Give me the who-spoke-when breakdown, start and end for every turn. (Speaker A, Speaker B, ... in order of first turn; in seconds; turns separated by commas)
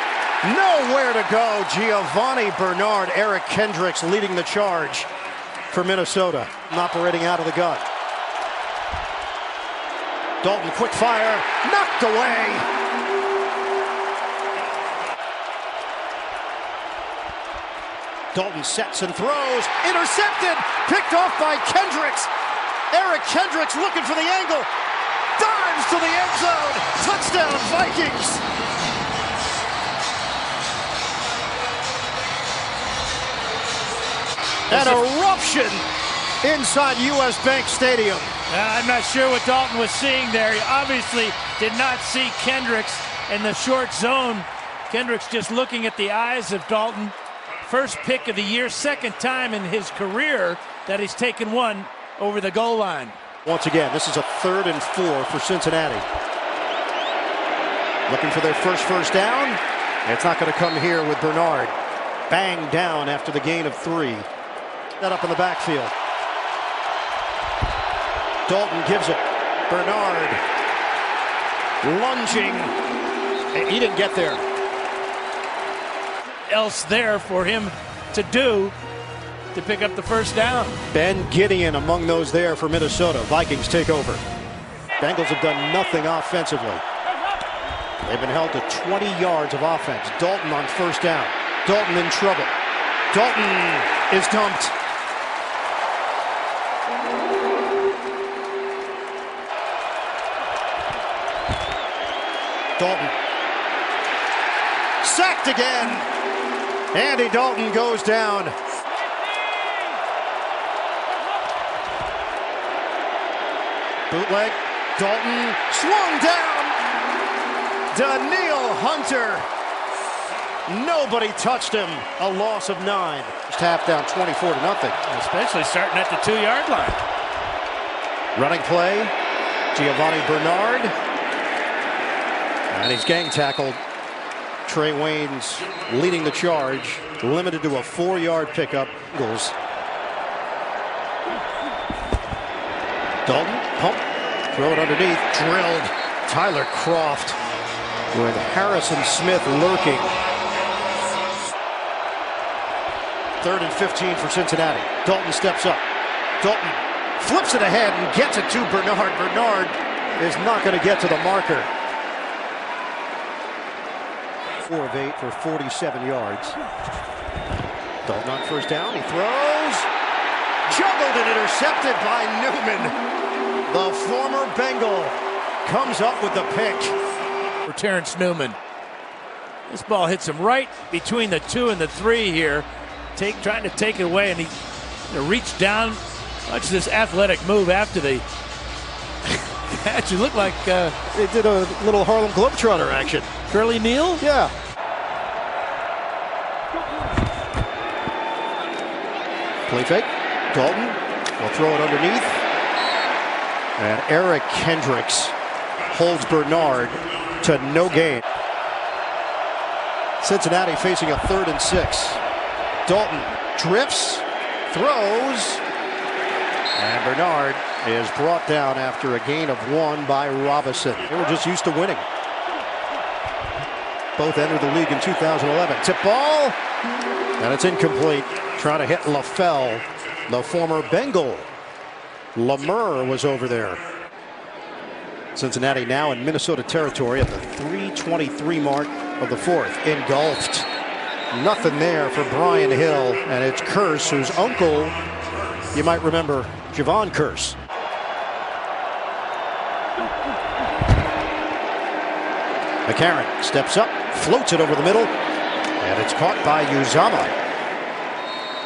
Speaker A: 0.4-5.1, Speaker A: 5.7-7.8, Speaker A: 10.4-12.7, Speaker A: 18.3-22.3, Speaker A: 22.9-24.7, Speaker A: 25.4-28.4, Speaker A: 34.7-35.8, Speaker B: 34.7-35.0, Speaker A: 36.4-38.3, Speaker B: 38.5-53.2, Speaker A: 53.4-56.0, Speaker A: 58.1-61.7, Speaker A: 62.3-64.3, Speaker A: 65.0-65.9, Speaker A: 68.5-70.4, Speaker A: 71.8-72.7, Speaker A: 73.5-74.4, Speaker B: 76.5-78.7, Speaker B: 79.5-80.8, Speaker A: 80.9-84.2, Speaker A: 85.0-86.8, Speaker A: 88.0-92.5, Speaker A: 93.1-94.7, Speaker A: 102.8-103.1, Speaker A: 105.0-106.1, Speaker A: 106.9-108.5, Speaker A: 114.1-116.8, Speaker A: 117.9-119.5, Speaker A: 120.7-125.0, Speaker B: 125.1-127.0, Speaker A: 128.3-129.1, Speaker A: 129.7-130.9, Speaker A: 132.7-133.8, Speaker A: 134.6-139.5, Speaker A: 143.2-147.4, Speaker A: 148.1-150.1, Speaker A: 153.4-155.8, Speaker A: 156.4-161.7, Speaker A: 164.6-166.6, Speaker A: 168.0-169.9, Speaker A: 170.7-173.0, Speaker A: 173.7-176.9, Speaker B: 177.7-178.6, Speaker B: 179.7-184.5, Speaker B: 185.1-188.2, Speaker B: 189.3-191.0, Speaker A: 191.1-193.3, Speaker B: 193.5-194.2, Speaker A: 194.2-194.5, Speaker A: 199.7-202.4, Speaker A: 203.8-205.3, Speaker A: 205.9-208.2, Speaker A: 210.2-212.2, Speaker A: 212.8-215.6, Speaker A: 216.8-222.1, Speaker A: 224.2-226.6, Speaker A: 227.4-231.5, Speaker A: 232.3-233.8, Speaker A: 235.3-240.7, Speaker A: 241.3-244.9, Speaker A: 245.7-247.6, Speaker A: 252.9-255.1, Speaker A: 255.8-257.3